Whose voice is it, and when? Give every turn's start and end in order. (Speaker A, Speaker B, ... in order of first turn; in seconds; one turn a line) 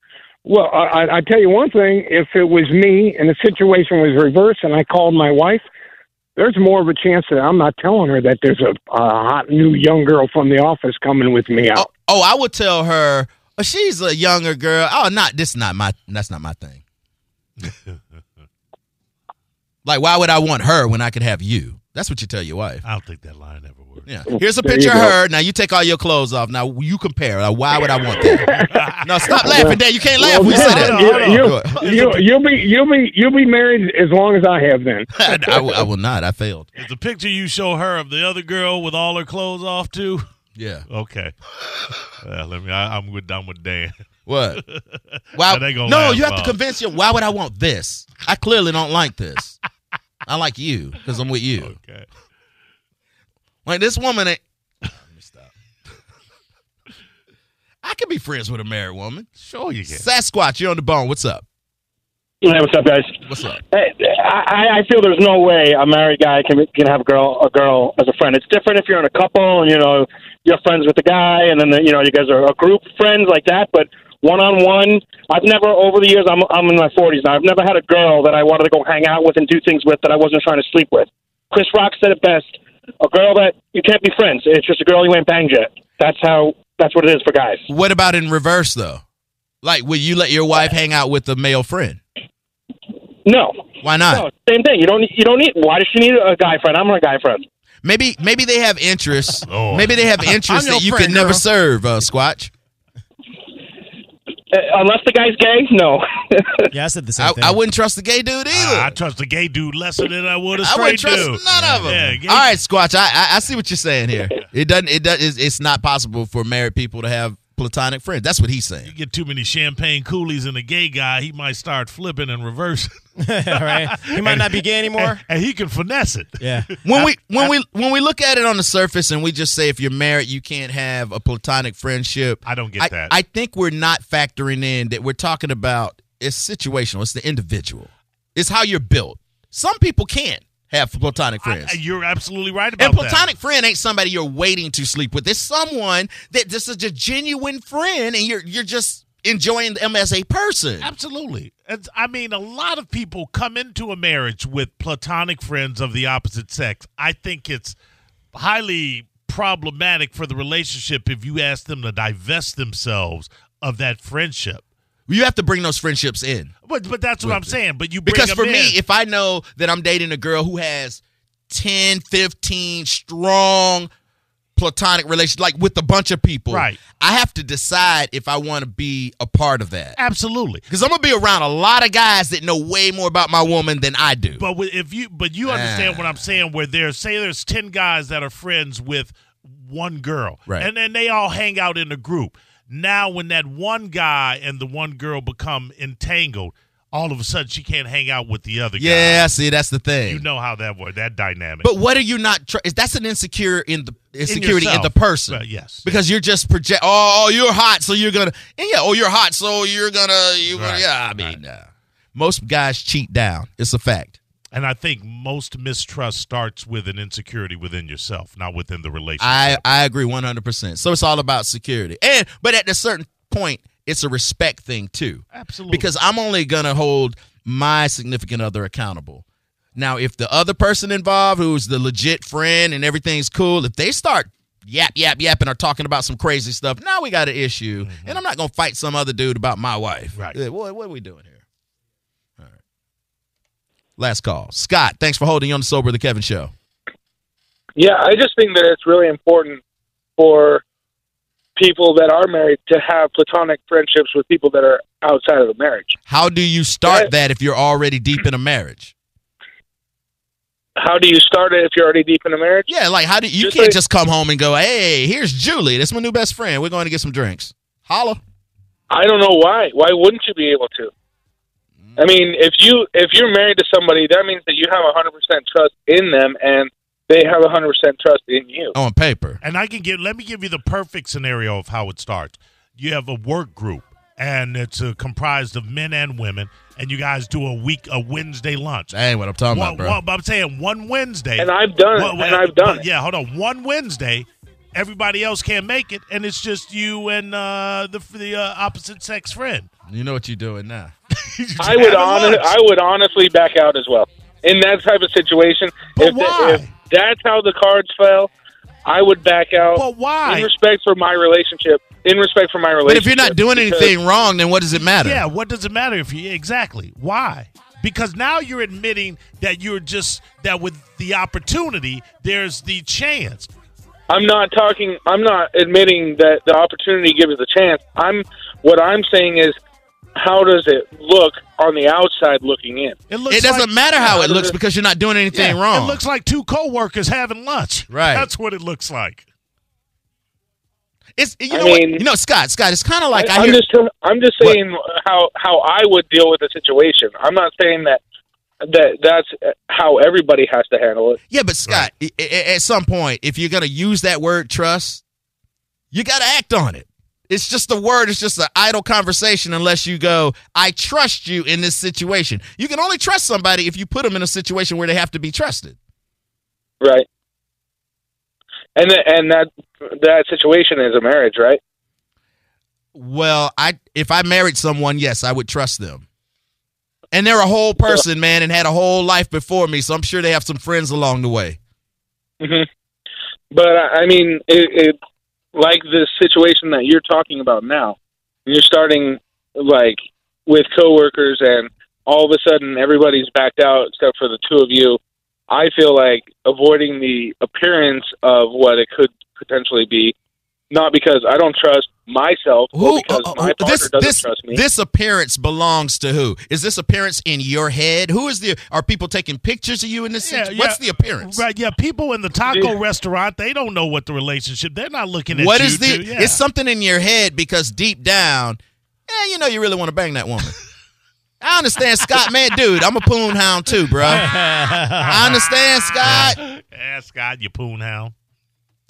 Speaker A: 0.4-5.6
Speaker A: 6.3-11.9
Speaker B: 11.7-16.8
Speaker C: 17.6-18.0
Speaker B: 19.8-22.8
Speaker C: 22.8-24.1
Speaker B: 24.1-31.8
Speaker A: 24.3-25.1
Speaker A: 28.3-35.8
Speaker C: 28.7-29.4
Speaker C: 30.4-32.4
Speaker B: 35.1-36.7
Speaker C: 36.8-40.2
Speaker B: 40.5-40.9
Speaker C: 40.9-41.3
Speaker C: 42.1-43.9
Speaker B: 44.3-44.6
Speaker C: 44.6-46.6
Speaker B: 45.3-49.6
Speaker B: 50.2-51.8
Speaker C: 51.6-52.1
Speaker B: 53.6-55.5
Speaker B: 57.8-59.3
Speaker C: 59.4-60.0
Speaker B: 59.9-61.4
Speaker D: 62.4-87.7
Speaker B: 63.2-63.6
Speaker B: 87.7-89.0
Speaker B: 89.6-92.0
Speaker D: 93.2-97.5
Speaker B: 93.8-94.2
Speaker B: 97.8-102.5
Speaker C: 99.5-100.4
Speaker E: 100.5-101.4
Speaker D: 104.5-106.7
Speaker E: 106.7-107.6
Speaker B: 107.2-109.0
Speaker C: 108.5-112.5
Speaker B: 110.6-118.9
Speaker E: 111.5-112.2
Speaker C: 118.8-122.9
Speaker E: 123.2-125.2
Speaker C: 123.5-127.5
Speaker E: 126.4-126.7
Speaker B: 126.8-141.8
Speaker C: 132.4-133.1
Speaker C: 141.4-143.3
Speaker B: 142.8-150.9
Speaker C: 150.8-157.8
Speaker C: 158.3-164.6
Speaker B: 165.1-166.5
Speaker C: 166.6-168.8
Speaker B: 167.2-173.9
Speaker B: 174.6-180.0
Speaker C: 176.5-176.8
Speaker C: 180.0-180.6
Speaker B: 180.7-184.4
Speaker C: 184.4-199.3
Speaker B: 185.4-186.2
Speaker B: 198.8-200.2
Speaker C: 200.1-201.7
Speaker B: 201.6-214.2
Speaker C: 204.2-205.9
Speaker C: 210.5-211.4
Speaker C: 214.5-219.6
Speaker B: 219.2-229.2
Speaker C: 225.3-225.9
Speaker B: 229.8-241.4
Speaker C: 237.8-238.2
Speaker B: 244.0-246.5
Speaker F: 247.8-249.6
Speaker F: 250.2-250.6
Speaker F: 251.6-256.0
Speaker B: 256.1-258.9
Speaker F: 260.8-262.7
Speaker B: 262.7-268.2
Speaker F: 263.4-263.8
Speaker F: 268.9-270.9
Speaker F: 272.0-278.7
Speaker B: 278.7-279.4
Speaker C: 279.4-288.9
Speaker B: 288.9-290.0
Speaker C: 289.5-299.7
Speaker F: 291.4-292.8
Speaker B: 299.9-300.9
Speaker C: 301.1-302.5
Speaker F: 301.6-308.3
Speaker C: 305.9-306.7
Speaker F: 308.8-313.9
Speaker C: 309.7-310.5
Speaker B: 312.8-315.2
Speaker C: 314.9-323.5
Speaker F: 324.1-329.6
Speaker F: 330.1-333.0
Speaker C: 333.1-334.5
Speaker B: 333.3-336.0
Speaker F: 334.1-334.5
Speaker C: 335.3-339.2
Speaker B: 337.9-338.3
Speaker B: 341.1-343.6
Speaker F: 341.5-342.1
Speaker F: 343.1-348.0
Speaker F: 348.6-351.2
Speaker B: 351.3-355.0
Speaker B: 355.9-365.8
Speaker F: 366.8-367.1
Speaker F: 368.8-371.6
Speaker B: 372.9-376.0
Speaker B: 377.1-381.6
Speaker F: 382.4-382.7
Speaker F: 383.5-384.9
Speaker F: 385.5-400.1
Speaker F: 400.7-404.6
Speaker B: 402.7-411.4
Speaker C: 410.2-416.4
Speaker F: 412.5-412.8
Speaker B: 415.3-420.6
Speaker B: 421.4-424.4
Speaker C: 424.0-425.5
Speaker E: 424.4-424.8
Speaker B: 425.0-426.4
Speaker C: 426.0-428.1